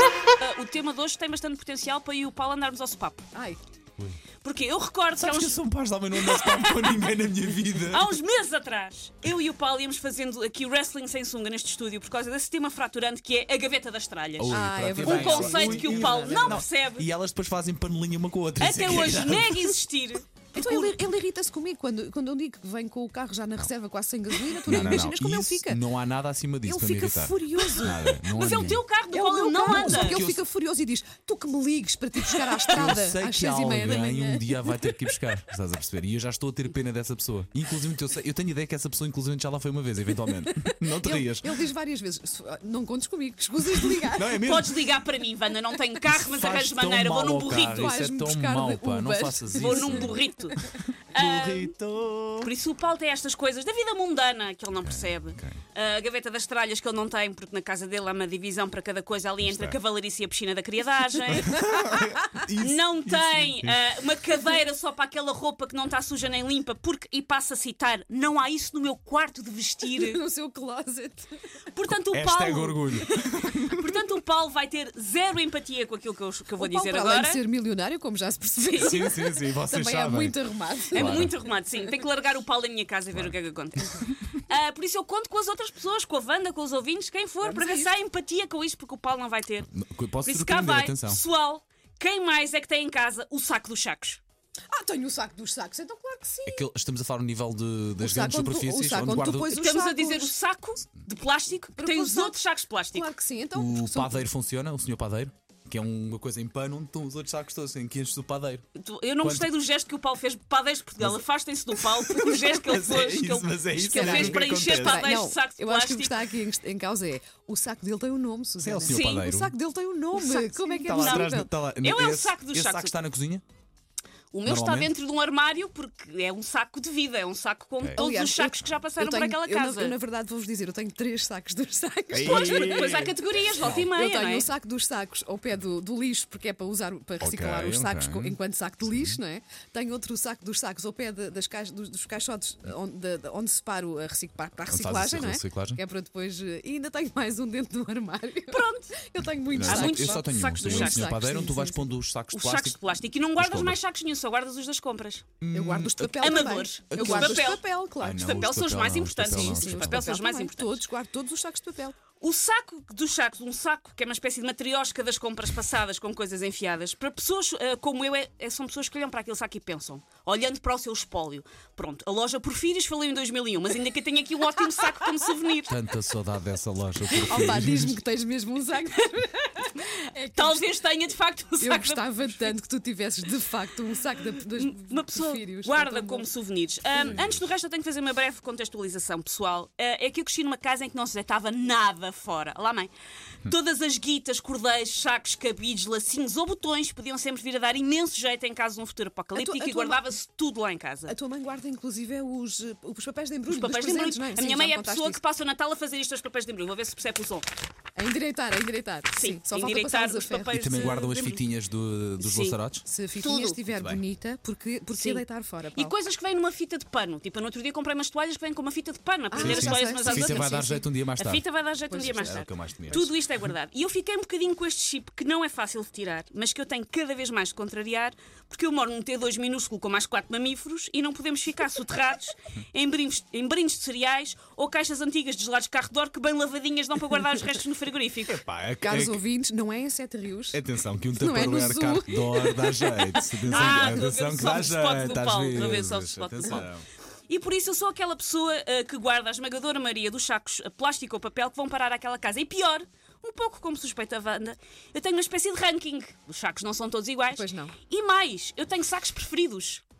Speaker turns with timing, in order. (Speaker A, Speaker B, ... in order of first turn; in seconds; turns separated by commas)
Speaker A: 0.4-3.3, Speaker A: 4.4-5.6, Speaker B: 5.2-8.1, Speaker A: 6.1-7.1, Speaker A: 7.8-17.1, Speaker B: 14.4-19.8, Speaker C: 14.5-16.6, Speaker A: 18.6-21.0, Speaker C: 20.5-25.8, Speaker B: 24.6-28.8, Speaker C: 26.6-28.2, Speaker A: 27.8-30.2, Speaker C: 29.1-35.1, Speaker B: 29.6-30.4, Speaker B: 32.7-41.6, Speaker C: 40.4-44.5, Speaker B: 43.7-44.7, Speaker A: 44.4-48.0, Speaker B: 46.1-50.1, Speaker C: 47.5-50.6, Speaker A: 49.5-50.6, Speaker A: 51.1-51.7, Speaker B: 51.1-52.5, Speaker A: 52.4-61.7, Speaker B: 54.7-55.6, Speaker B: 59.4-59.8, Speaker B: 61.3-63.8, Speaker A: 62.6-70.2, Speaker C: 69.9-71.3, Speaker A: 71.7-77.4, Speaker B: 71.9-73.9, Speaker C: 76.6-81.3, Speaker A: 78.7-79.0, Speaker B: 78.7-80.4, Speaker B: 80.9-81.3, Speaker A: 80.9-89.7, Speaker B: 83.1-83.3, Speaker C: 87.4-87.9, Speaker B: 89.7-91.2, Speaker A: 90.2-94.2, Speaker C: 94.7-96.7, Speaker B: 96.5-99.6, Speaker C: 98.0-100.3, Speaker A: 99.5-103.1, Speaker C: 101.8-102.4, Speaker C: 102.9-104.3, Speaker B: 103.5-108.6, Speaker A: 108.8-116.2, Speaker B: 109.2-109.5, Speaker B: 111.7-115.1, Speaker C: 113.8-121.5, Speaker B: 118.6-119.5, Speaker A: 118.9-119.3, Speaker A: 120.2-122.9, Speaker B: 120.8-123.4, Speaker A: 124.3-130.0, Speaker B: 124.4-124.9, Speaker C: 128.0-151.9, Speaker B: 132.1-133.8, Speaker A: 132.2-134.5, Speaker B: 137.2-139.2, Speaker B: 144.7-145.8, Speaker A: 148.5-148.9, Speaker B: 149.5-153.8, Speaker A: 149.6-151.1, Speaker A: 152.3-155.2, Speaker B: 155.4-160.1, Speaker C: 155.5-158.7, Speaker A: 156.2-160.8, Speaker C: 159.2-162.0, Speaker A: 162.2-175.7, Speaker B: 175.7-178.0, Speaker C: 177.1-180.7, Speaker A: 179.6-182.5, Speaker C: 181.6-186.3, Speaker A: 184.5-192.9, Speaker C: 187.0-187.2, Speaker B: 187.1-187.4, Speaker A: 193.4-201.1, Speaker C: 199.3-200.1, Speaker C: 201.1-205.2, Speaker A: 203.5-207.5, Speaker C: 207.9-210.7, Speaker A: 209.2-211.5, Speaker B: 210.5-212.8, Speaker A: 212.2-212.6, Speaker C: 212.8-215.9, Speaker A: 213.2-213.6, Speaker B: 213.7-214.0, Speaker A: 214.9-215.2, Speaker A: 215.7-220.6, Speaker C: 219.3-220.9, Speaker B: 219.4-223.1, Speaker A: 221.2-238.4, Speaker C: 221.9-222.4, Speaker B: 238.2-239.2, Speaker C: 238.8-240.6, Speaker B: 240.5-246.8, Speaker C: 241.1-244.0, Speaker A: 243.4-246.7, Speaker A: 247.3-259.8, Speaker C: 257.3-257.7